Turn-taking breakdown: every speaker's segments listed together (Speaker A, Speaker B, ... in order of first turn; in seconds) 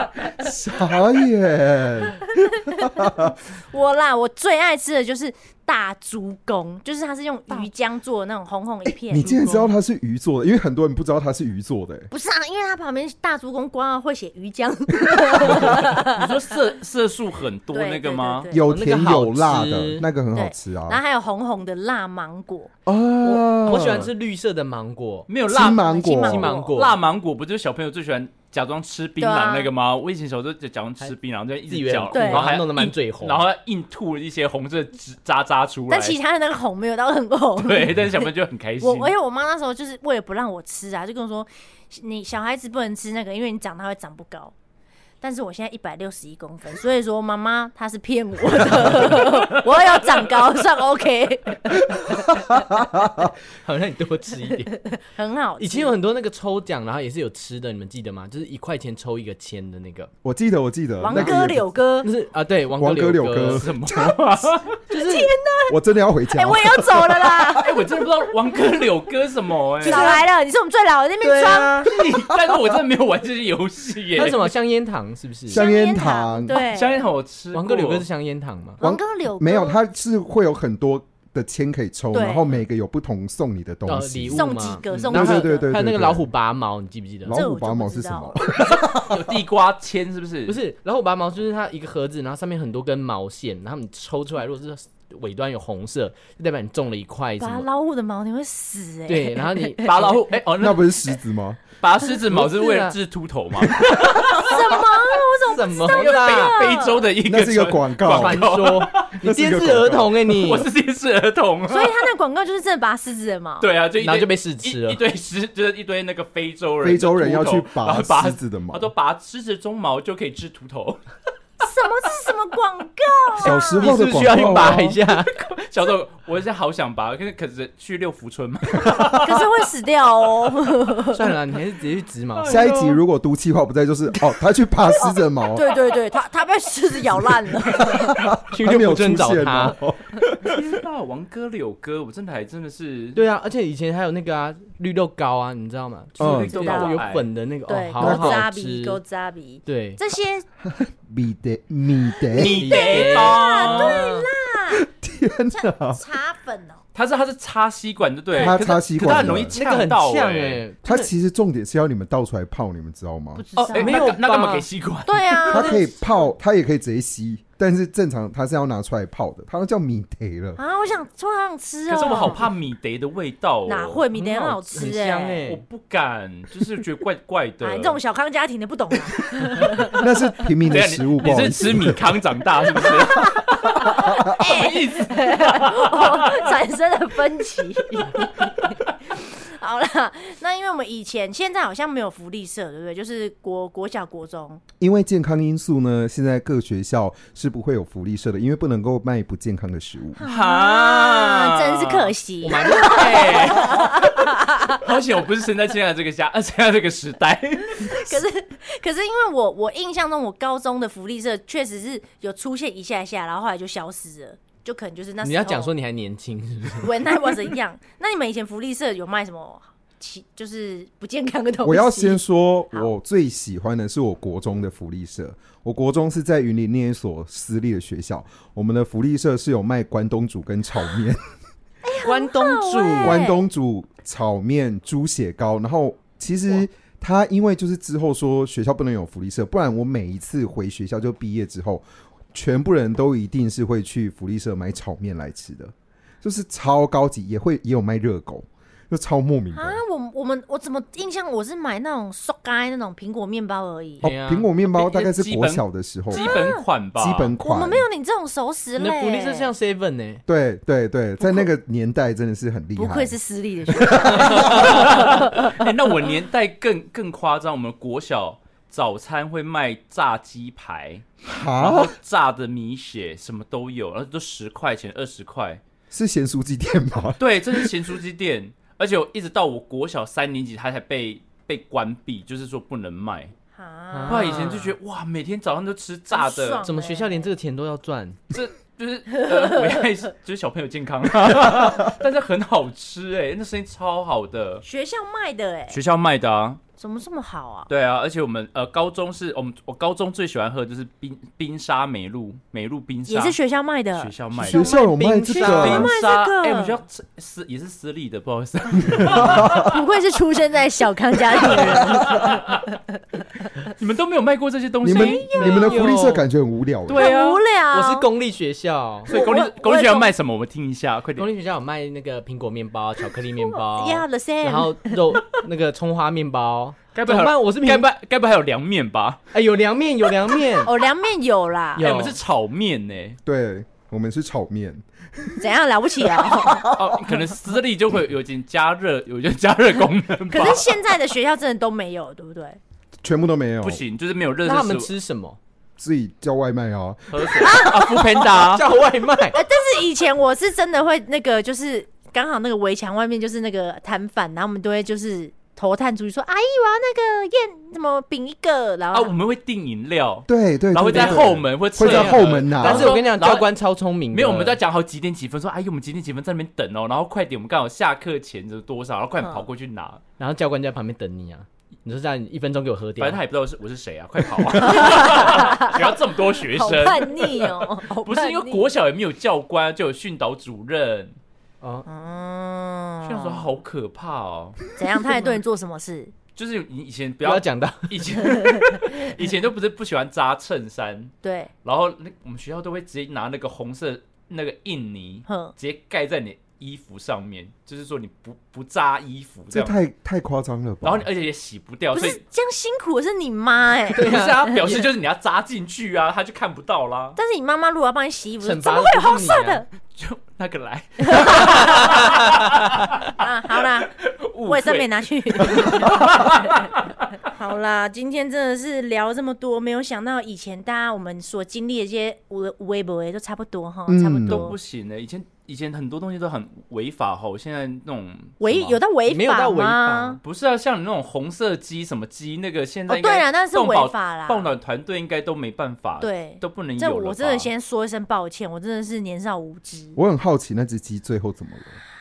Speaker A: 0.4-3.3, 8.8-12.1, 15.4-15.7, 18.5-21.0, 22.9-24.1, 25.5-26.6, 52.0-53.3, 60.2-61.6, 62.7-64.4, 65.7-67.6, 71.9-72.6, 75.5-76.6, 78.8-86.3, 87.2-89.3, 100.6-101.6, 107.2-110.4, 116.8-118.9, 123.4-125.0, 128.8-129.2, 132.5-135.7, 137.8-140.7, 146.2-146.5, 148.0-148.4, 150.6-152.6, 154.8-156.0, 158.4-159.6, 160.8-163.4, 165.5-170.6, 179.9-182.0, 183.9-184.3, 194.8-200.2, 221.6-231.2, 233.0-249.8, 254.0-257.9, 260.3-263.2, 263.8-264.9, 271.2-271.9, 275.9-277.7, 304.3-305.9, 308.8-309.7, 314.8-317.0, 333.2-335.4, 336.2-336.8, 343.0-343.8, 345.8-348.0, 360.3-362.9, 399.5-401.1, 423.9-424.5, 439.9-441.8
Speaker B: 2.5-9.3, 12.1-16.3, 17.7-18.6, 20.3-22.7, 25.6-26.8, 29.2-29.7, 32.1-32.5, 35.9-38.3, 38.8-44.5, 45.2-52.6, 54.9-55.9, 61.0-62.1, 64.9-65.8, 66.3-67.8, 69.8-71.8, 75.5-77.0, 78.8-79.8, 82.1-82.5, 84.3-85.7, 87.3-88.4, 97.4-100.3, 104.2-107.0, 111.7-113.7, 121.6-123.9, 129.2-131.3, 134.9-138.3, 146.3-147.0, 147.7-150.4, 152.7-154.8, 155.5-156.8, 158.3-158.6, 163.3-164.2, 165.1-165.9, 170.6-172.4, 173.7-175.4, 177.6-180.0, 182.8-194.6, 200.1-204.8, 207.7-215.7, 216.8-222.9, 231.8-233.4, 249.5-254.1, 256.1-256.6, 257.4-259.5, 261.2-261.5, 262.8-265.6, 283.5-284.6, 286.1-287.3, 294.6-295.8, 296.8-297.7, 303.1-306.8, 309.6-312.6, 314.9-315.7, 316.9-318.1, 319.1-320.1, 323.4-325.3, 330.6-331.9, 335.4-336.7, 340.3-342.6, 349.3-359.1, 374.6-375.9, 376.5-378.6, 381.9-383.5, 384.8-386.1, 391.2-391.5, 395.3-395.5, 401.9-404.3, 407.1-409.6, 411.0-412.1, 413.1-413.9, 414.4-416.7, 417.3-424.6, 428.4-430.2, 432.9-434.5, 436.0-440.0
Speaker C: 9.2-9.6, 15.4-18.5, 25.3-26.0, 26.8-36.2, 37.6-39.1, 63.4-64.8, 67.6-70.2, 71.8-74.5, 76.5-78.0, 88.5-90.6, 99.8-101.1, 101.8-104.6, 105.8-109.1, 110.3-112.1, 113.6-121.0, 124.2-129.4, 132.4-133.0, 140.4-143.2, 146.2-147.3, 152.3-154.0, 156.9-160.6, 163.6-165.9, 171.9-174.0, 175.4-178.0, 179.2-179.7, 180.7-186.5, 200.2-202.1, 202.7-208.2, 254.7-257.3, 264.0-271.0, 271.6-275.6, 277.2-283.3, 284.1-286.6, 288.3-294.6, 295.7-296.6, 297.7-303.4, 303.9-304.9, 305.4-309.7, 311.4-312.7, 313.8-315.4, 316.9-317.4, 319.1-321.3, 326.9-329.2, 331.8-333.2, 336.7-340.7, 343.6-344.9, 347.1-348.7, 358.9-363.5, 364.1-370.0, 373.0-381.1, 383.0-384.6, 386.4-399.8, 400.8-402.2, 404.0-407.2, 409.9-413.1, 413.9-416.9, 424.2-428.8, 430.2-437.5
Speaker D: 9.3-9.6, 18.6-20.1, 23.2-25.3, 26.0-27.0, 31.7-33.5, 53.6-54.7, 55.6-60.1, 62.0-63.6, 64.9-65.3, 69.8-70.2, 71.2-71.9, 74.2-75.6, 77.5-78.8, 83.8-87.4, 90.5-97.7, 99.1-99.9, 102.2-103.0, 104.5-104.8, 105.4-106.7, 108.0-110.7, 114.0-115.0, 123.4-125.3, 131.1-132.7, 138.5-139.8, 143.1-149.0, 149.7-150.0, 152.4-154.3, 159.0-161.1, 163.7-164.7, 174.1-175.6, 202.4-203.7, 215.2-217.5, 232.0-233.2, 254.0-254.5, 258.8-260.2, 283.9-284.8, 286.6-288.2, 304.5-305.9, 315.3-316.2, 317.7-319.1, 321.2-327.9, 329.3-330.7, 331.8-332.1, 344.4-345.4, 348.3-349.4, 360.9-364.6, 370.2-373.2, 381.6-381.9, 387.2-388.6, 403.9-404.9, 408.4-409.6, 429.1-430.2